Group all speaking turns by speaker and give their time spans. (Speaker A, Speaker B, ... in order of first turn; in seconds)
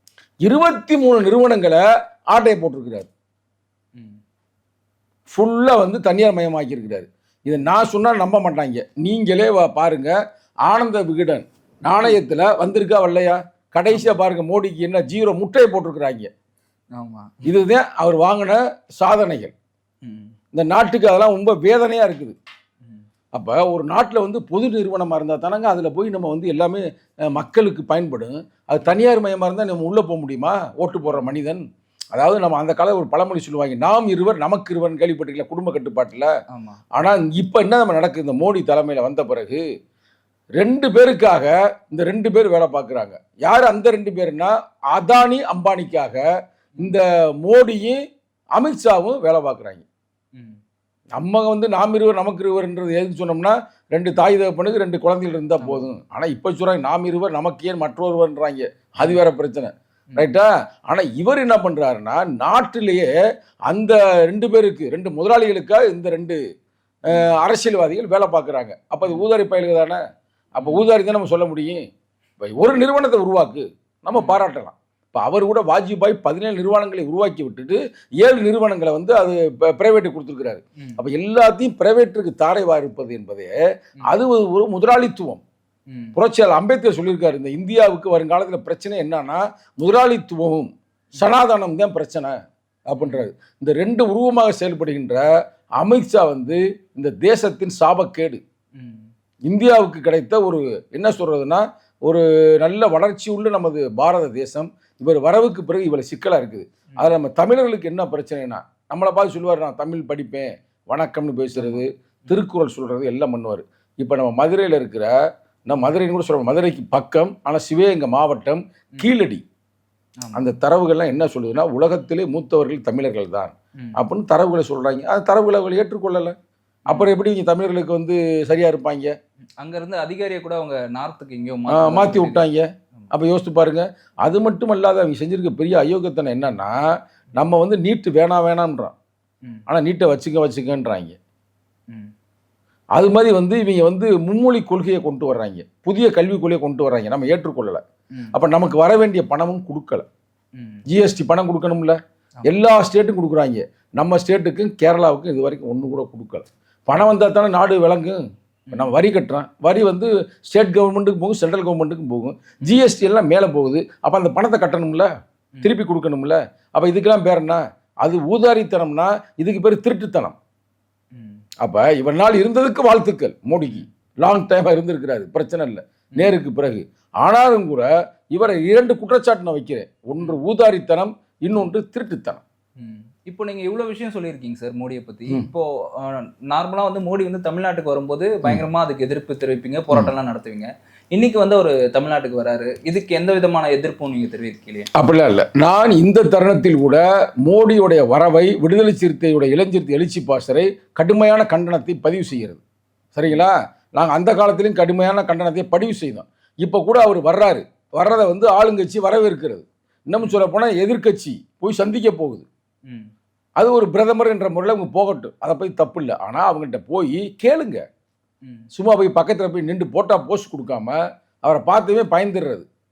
Speaker A: 0.5-3.1, 5.3-10.1, 10.7-16.3, 17.4-19.5, 20.5-22.4, 23.3-36.3, 37.0-39.6, 40.6-46.2, 46.8-48.0, 48.6-49.9, 51.2-63.1, 63.7-66.4, 67.1-70.0, 70.5-71.8, 72.4-85.4, 86.2-92.4, 92.9-95.2, 95.8-98.4, 99.5-115.1, 115.7-119.4, 120.3-126.4, 126.9-129.1, 131.7-136.8, 137.3-138.9, 139.7-141.2, 143.0-147.8, 148.3-150.1, 150.9-158.2, 158.7-165.1, 165.6-170.4, 171.6-182.4, 195.0-202.6, 203.2-212.5, 213.6-217.8, 218.7-222.7
Speaker B: 4.0-4.2, 13.9-14.2, 16.9-17.5, 20.0-20.3, 31.1-31.3, 36.5-36.8, 55.6-55.9, 70.6-70.9, 74.1-74.4, 85.9-86.2, 93.0-93.3, 98.8-99.1, 111.6-112.3, 120.2-120.5, 129.6-132.4, 150.6-150.8, 158.7-159.0, 171.1-171.4, 182.8-194.9, 212.9-213.1